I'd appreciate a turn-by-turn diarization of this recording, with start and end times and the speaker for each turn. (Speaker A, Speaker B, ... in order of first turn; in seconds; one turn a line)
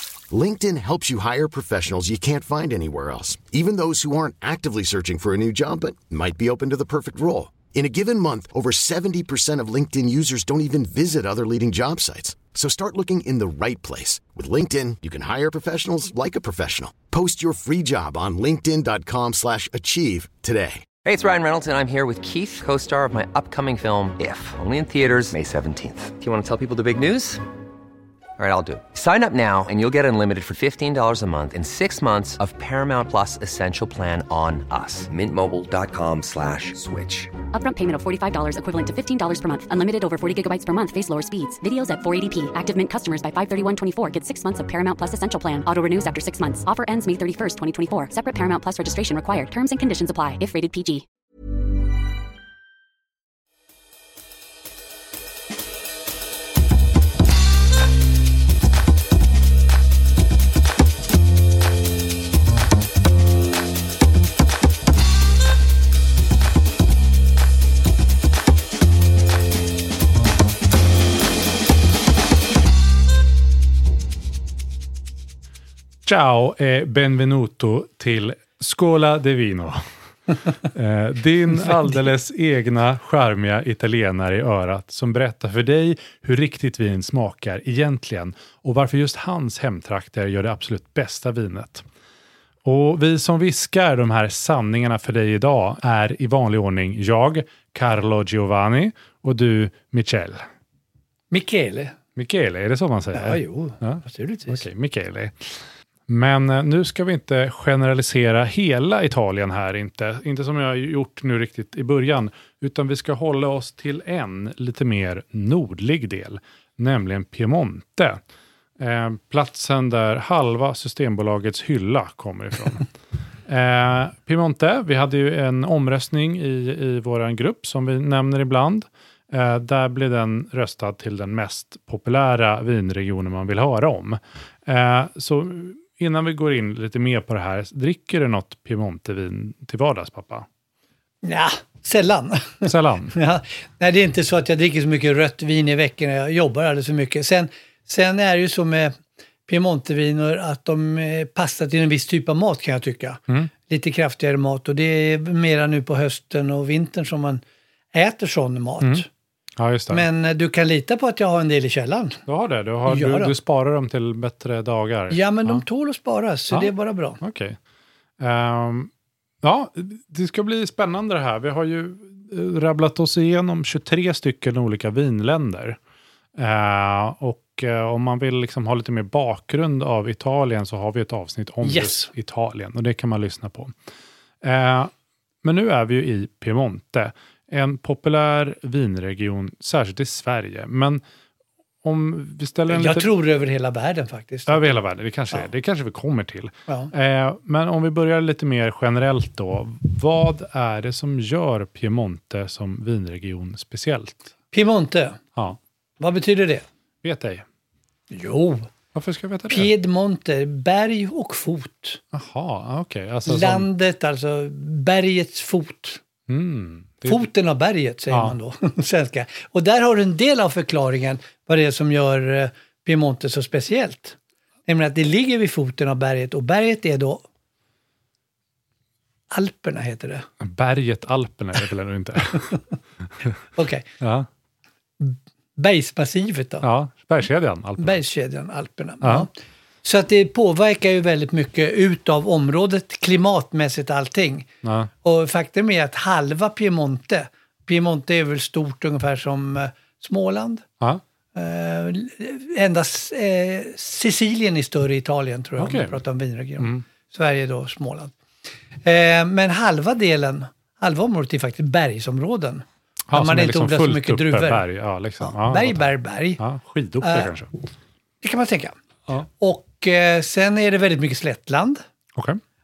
Speaker A: 0.3-20.9
Speaker B: 21.0-27.4
Speaker B: 28.4-37.3
Speaker C: 37.5-51.0
Speaker D: 76.0-91.9
Speaker D: 92.6-100.5
Speaker E: 101.3-102.0
Speaker D: 102.2-118.2
Speaker E: 103.1-104.6
Speaker D: 118.8-122.9
Speaker D: 123.5-140.5
Speaker E: 141.2-148.9
Speaker D: 142.7-143.1
Speaker E: 149.5-157.4
Speaker E: 157.9-159.1
Speaker D: 159.6-160.1
Speaker E: 159.9-162.2
Speaker D: 162.3-165.6
Speaker E: 162.9-163.3
Speaker E: 165.1-167.2
Speaker D: 166.5-167.6
Speaker D: 168.2-168.9
Speaker D: 169.4-175.8
Speaker D: 176.3-183.7
Speaker E: 181.6-182.1
Speaker D: 184.4-184.9
Speaker D: 185.4-191.0
Speaker D: 191.8-193.1
Speaker E: 192.7-194.8
Speaker D: 194.5-204.3
Speaker E: 204.5-205.2
Speaker E: 206.0-206.7
Speaker D: 207.0-207.4
Speaker E: 208.1-208.7
Speaker D: 208.9-209.7
Speaker E: 209.5-212.0
Speaker D: 212.1-213.7
Speaker E: 213.3-216.0
Speaker D: 216.3-217.3
Speaker E: 217.0-227.2
Speaker D: 218.1-218.4
Speaker E: 229.3-230.3
Speaker D: 230.4-232.6
Speaker E: 233.5-233.9
Speaker D: 234.0-234.3
Speaker E: 235.0-236.7
Speaker D: 236.6-238.0
Speaker E: 237.8-239.3
Speaker D: 239.0-239.3
Speaker E: 239.8-244.5
Speaker D: 244.6-244.9
Speaker E: 245.0-250.6
Speaker E: 251.3-258.1
Speaker D: 255.6-256.0
Speaker D: 256.6-256.8
Speaker E: 258.8-264.6
Speaker D: 263.1-265.9
Speaker E: 265.2-266.4
Speaker D: 266.4-267.5
Speaker E: 267.0-267.3
Speaker E: 268.2-271.8
Speaker D: 272.1-272.4